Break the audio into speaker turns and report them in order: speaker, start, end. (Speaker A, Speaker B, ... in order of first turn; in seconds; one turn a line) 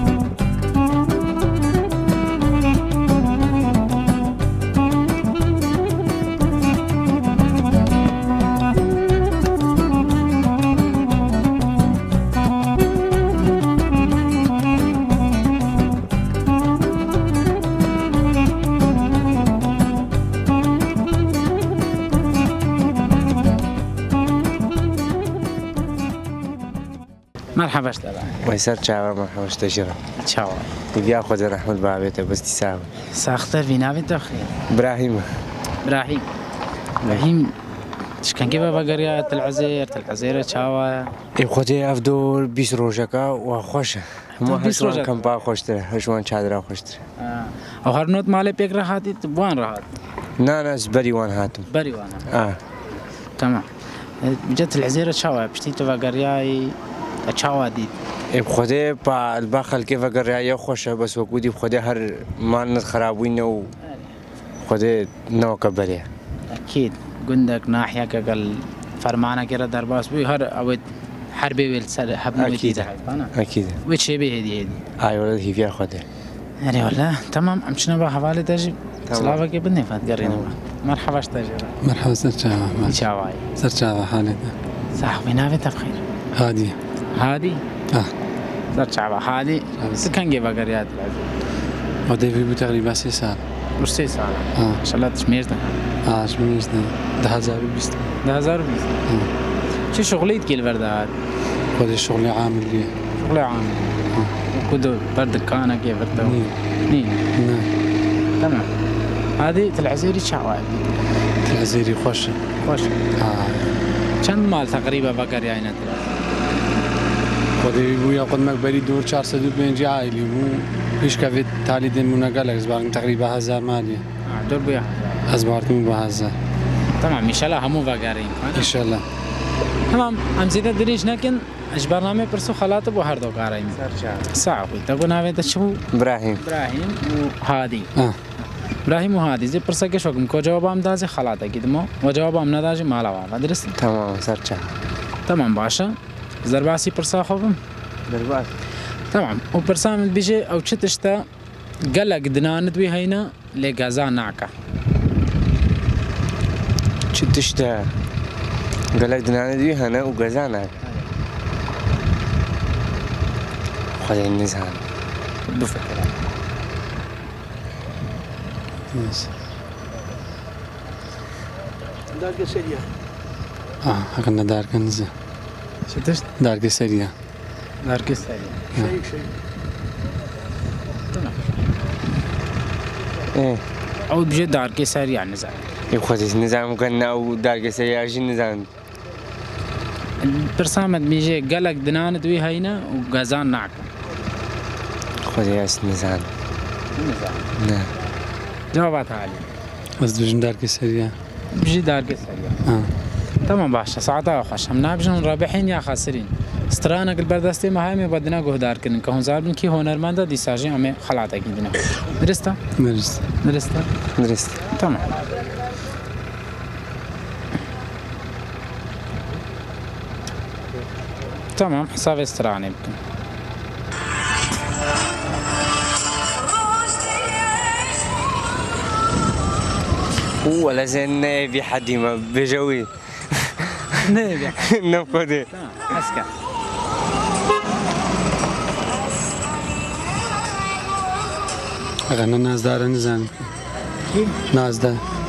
Speaker A: 27.6-28.4
Speaker B: 28.4-30.0
Speaker A: 30.2-30.7
Speaker B: 30.9-32.9
Speaker A: 33.1-34.5
Speaker B: 34.7-35.3
Speaker A: 35.8-36.3
Speaker A: 37.0-37.6
Speaker A: 38.2-41.1
Speaker B: 41.4-47.0
Speaker A: 44.4-45.1
Speaker A: 47.2-49.9
Speaker B: 50.4-51.7
Speaker A: 51.7-52.3
Speaker B: 52.3-52.6
Speaker A: 53.4-53.7
Speaker A: 54.2-58.0
Speaker B: 58.3-63.7
Speaker A: 63.8-64.1
Speaker B: 64.6-66.1
Speaker A: 66.5-73.3
Speaker B: 72.3-73.8
Speaker A: 73.8-74.8
Speaker B: 75.0-76.0
Speaker A: 76.6-81.8
Speaker B: 79.1-79.4
Speaker B: 80.2-80.5
Speaker C: 81.8-83.0
Speaker A: 82.9-83.5
Speaker C: 83.6-84.5
Speaker A: 85.0-86.0
Speaker C: 86.4-86.8
Speaker A: 87.1-87.6
Speaker A: 88.7-91.3
Speaker C: 89.8-90.1
Speaker C: 92.1-93.4
Speaker A: 93.8-95.8
Speaker C: 96.0-98.2
Speaker A: 98.2-99.0
Speaker A: 99.9-101.1
Speaker C: 101.8-102.9
Speaker A: 103.2-103.9
Speaker A: 104.5-107.2
Speaker C: 106.2-106.6
Speaker C: 107.4-107.7
Speaker A: 108.4-108.7
Speaker A: 109.4-111.0
Speaker C: 111.5-112.4
Speaker A: 112.6-113.0
Speaker C: 113.2-113.7
Speaker A: 114.2-116.1
Speaker C: 117.6-124.0
Speaker A: 124.3-125.2
Speaker C: 125.3-126.3
Speaker A: 127.0-128.7
Speaker C: 128.6-129.0
Speaker A: 129.9-135.8
Speaker B: 133.8-134.3
Speaker B: 135.9-136.4
Speaker A: 136.4-137.9
Speaker A: 138.8-143.7
Speaker B: 143.8-144.7
Speaker A: 145.3-147.6
Speaker B: 148.1-148.5
Speaker A: 149.1-151.3
Speaker A: 151.8-154.5
Speaker B: 157.1-157.9
Speaker B: 158.9-160.8
Speaker B: 164.0-164.8
Speaker A: 165.5-166.1
Speaker C: 168.9-169.3
Speaker C: 173.8-175.1
Speaker A: 175.9-176.3
Speaker C: 176.4-177.1
Speaker A: 177.8-178.7
Speaker C: 178.7-179.0
Speaker A: 181.1-181.5
Speaker B: 183.3-183.6
Speaker A: 184.1-185.7
Speaker B: 185.9-188.7
Speaker A: 190.2-193.9
Speaker B: 195.2-196.3
Speaker A: 197.0-197.5
Speaker B: 197.6-197.9
Speaker A: 198.7-199.5
Speaker C: 200.0-201.1
Speaker A: 201.5-202.6
Speaker A: 203.4-212.6
Speaker C: 212.8-213.2
Speaker A: 213.4-213.9
Speaker B: 214.2-214.6
Speaker A: 214.7-215.1
Speaker A: 221.6-223.0
Speaker B: 230.4-234.0
Speaker A: 234.0-234.7
Speaker B: 234.6-235.5
Speaker A: 235.5-236.3
Speaker C: 242.1-243.3
Speaker A: 244.1-244.4
Speaker C: 244.5-245.0